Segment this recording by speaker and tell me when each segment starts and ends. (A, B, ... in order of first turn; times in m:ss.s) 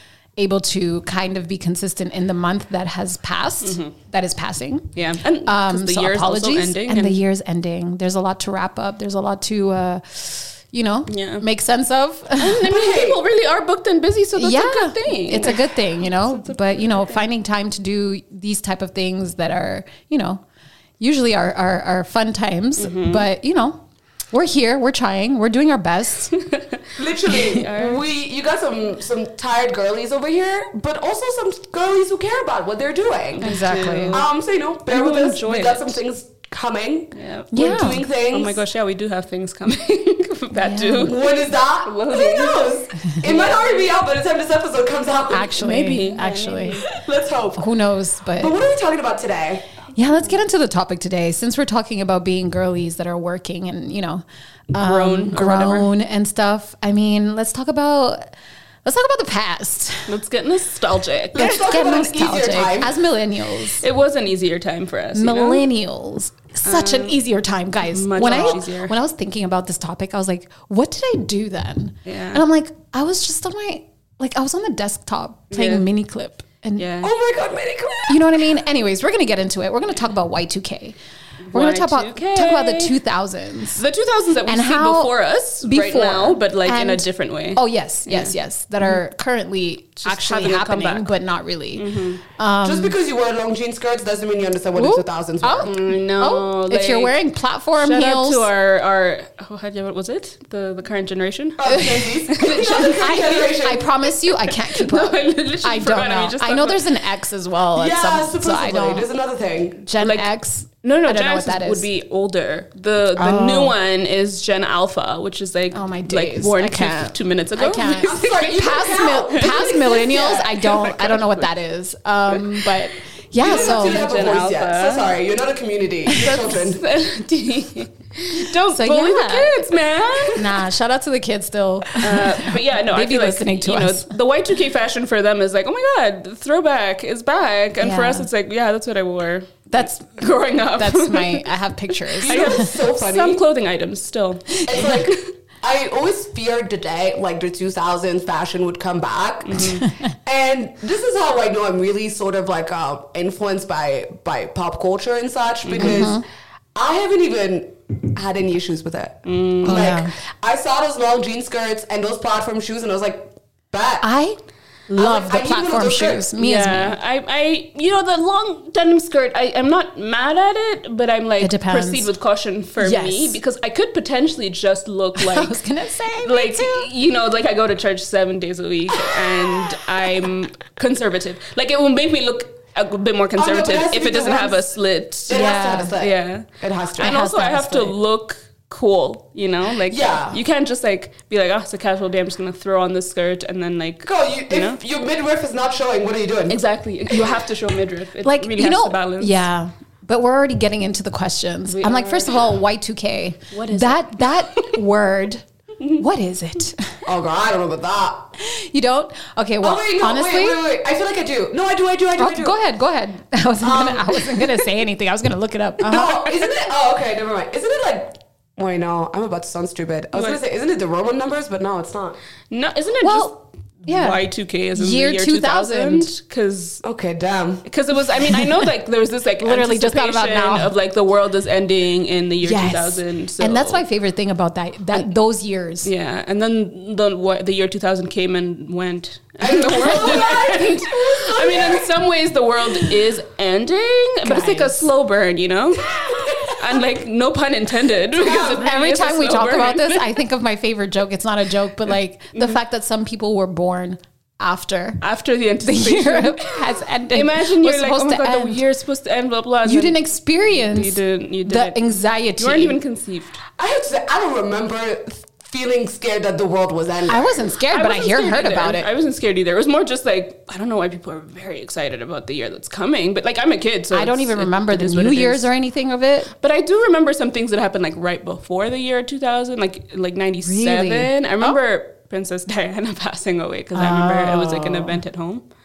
0:00.4-0:04.9 A
0:03.6-0:03.9 B
0:05.0-0:07.2 B
0:05.4-0:12.6 A
0:11.1-0:11.4 B
0:12.4-0:17.2 B
0:12.6-0:13.2 C
0:14.4-0:20.4 A
0:21.0-0:23.8 A
0:22.8-0:23.3 B
0:24.3-0:26.3 A
0:26.3-0:26.8 B
0:27.0-0:38.6 C
0:27.3-0:28.0 B
0:33.4-0:34.3 B
0:33.4-0:34.2 A
0:34.9-0:36.0 B
0:37.2-0:37.5 B
0:37.5-0:38.0 A
0:38.3-0:43.9 B
0:40.5-0:41.1 A
0:41.0-0:45.6 C
0:45.3-0:46.9 A
0:45.6-0:46.9 B
0:46.9-0:47.7 C
0:47.6-0:48.5 A
0:48.4-0:49.6 C
0:50.0-0:58.3 A
0:54.8-0:55.9 B
0:58.8-1:00.1 A
1:00.1-1:01.6 B
1:01.3-1:03.0 C
1:01.4-1:03.8 A
1:03.8-1:05.7 B
1:05.1-1:16.9 A
1:06.7-1:07.2 B
1:07.9-1:09.0 B
1:08.2-1:08.6 C
1:12.1-1:12.4 B
1:15.5-1:15.8 B
1:16.8-1:17.1 B
1:17.0-1:18.4 C
1:18.1-1:21.0 A
1:21.5-1:23.0 B
1:21.5-1:23.8 A
1:23.8-1:29.0 B
1:24.5-1:33.0 A
1:30.0-1:31.1 B
1:31.8-1:32.2 B
1:32.6-1:35.8 C
1:34.8-1:38.5 A
1:35.6-1:37.2 B
1:37.8-1:43.3 B
1:41.6-1:43.9 C
1:41.7-1:42.2 A
1:43.0-1:49.1 A
1:44.4-1:46.8 B
1:47.8-1:49.8 C
1:49.9-1:51.9 A
1:50.0-1:50.3 B
1:50.8-1:58.6 B
1:53.2-1:53.8 A
1:55.7-2:04.0 A
1:58.0-2:00.7 C
1:59.4-1:59.8 B
2:00.7-2:01.5 B
2:02.3-2:02.8 B
2:03.4-2:06.8 C
2:03.4-2:05.2 B
2:06.1-2:06.4 A
2:06.1-2:10.6 B
2:08.3-2:09.6 A
2:10.3-2:14.2 A
2:12.0-2:21.5 B
2:17.8-2:18.3 A
2:19.7-2:20.2 A
2:20.8-2:22.7 A
2:22.1-2:25.2 B
2:22.2-2:23.4 C
2:24.7-2:36.2 C
2:29.4-2:29.8 B
2:29.8-2:30.1 A
2:35.6-2:36.1 B
2:35.8-2:36.2 A
2:36.8-2:44.0 C
2:39.2-2:40.0 B
2:39.6-2:40.1 A
2:44.0-2:47.0 A
2:45.0-2:46.3 C
2:46.4-2:55.6 B
2:51.4-2:52.1 A
2:52.8-2:53.4 A
2:55.2-2:56.9 A
2:56.2-3:14.8 B
2:59.0-2:59.7 C
3:03.4-3:04.7 C
3:05.3-3:07.1 C
3:05.3-3:06.0 A
3:07.0-3:08.0 A
3:09.9-3:10.4 C
3:14.0-3:16.6 C
3:16.5-3:19.4 B
3:18.2-3:27.0 A
3:21.7-3:22.6 B
3:23.5-3:24.8 B
3:27.1-3:28.3 C
3:28.4-3:30.6 A
3:29.6-3:32.6 C
3:32.2-3:36.2 A
3:33.6-3:34.2 C
3:35.8-3:42.2 C
3:40.1-3:40.4 B
3:42.5-3:46.8 B
3:43.0-3:43.3 A
3:43.9-3:44.2 A
3:44.7-3:46.1 A
3:46.8-3:47.6 C
3:47.7-3:53.8 B
3:48.3-3:48.7 A
3:49.4-3:50.7 A
3:52.4-3:55.9 A
3:55.8-4:10.2 B
3:59.4-4:01.9 C
4:04.2-4:04.9 A
4:06.0-4:06.6 C
4:08.2-4:08.7 C
4:08.4-4:15.0 A
4:15.0-4:20.0 B
4:15.6-4:18.6 A
4:19.7-4:22.8 A
4:20.5-4:23.4 B
4:23.6-4:27.4 C
4:27.1-4:28.9 A
4:27.7-4:35.5 B
4:33.9-4:36.3 A
4:36.3-4:45.4 B
4:40.4-4:41.6 A
4:43.7-4:45.0 A